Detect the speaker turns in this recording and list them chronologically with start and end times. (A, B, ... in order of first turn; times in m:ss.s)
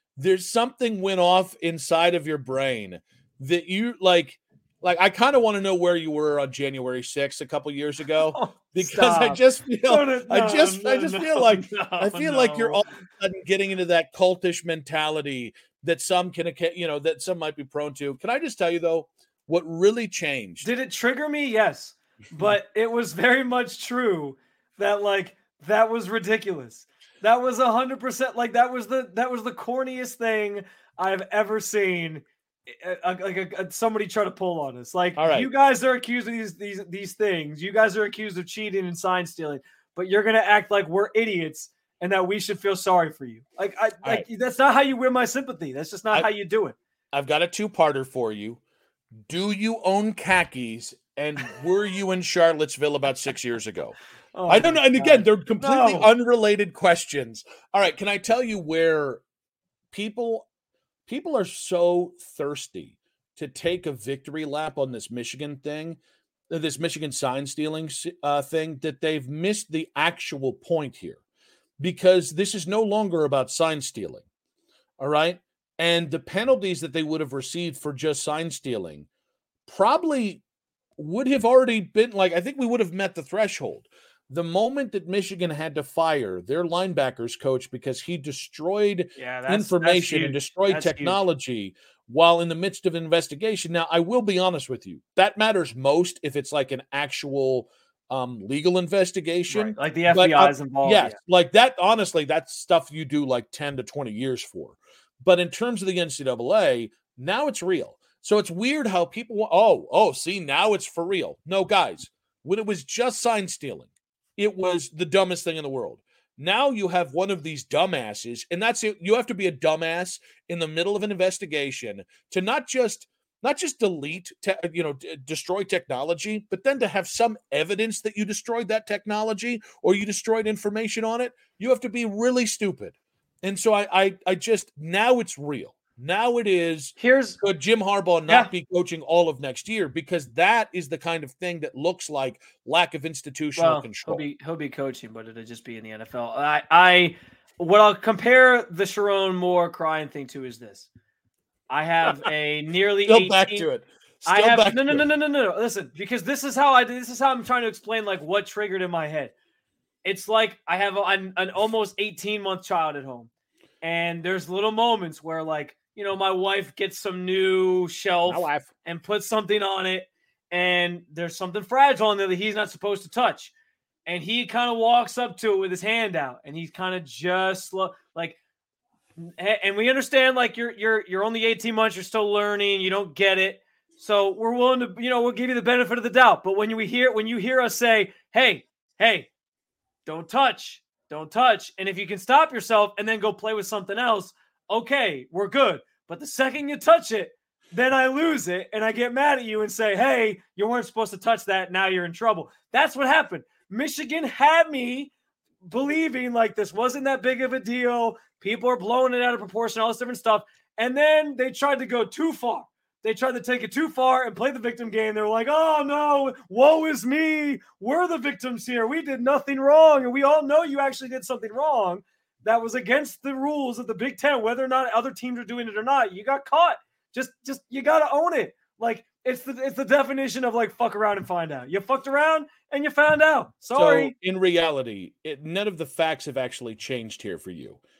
0:00.2-0:20.7 A
0:08.3-0:12.8 B
0:20.6-0:46.8 B
0:35.2-0:35.5 A
0:47.1-0:48.6 A
0:49.3-0:54.0 A
0:54.4-0:56.1 B
0:54.5-0:59.2 A
0:59.9-1:00.5 A
1:01.1-1:06.0 A
1:06.5-1:11.2 A
1:11.8-1:14.2 A
1:15.0-1:19.0 A
1:19.7-1:20.4 A
1:21.0-2:24.2 A
1:29.2-1:31.2 B
1:39.5-1:41.2 B
2:17.0-2:17.4 B
2:23.6-2:30.9 B
2:31.7-2:33.7 B
2:33.1-2:35.0 A
2:34.3-2:39.3 B
2:40.0-2:43.3 B
2:43.8-2:53.5 B
2:48.3-2:48.7 A
2:54.0-2:58.4 B
2:59.2-3:09.3 B
3:10.0-3:25.1 B
3:25.6-3:54.1 B
3:53.7-3:57.8 A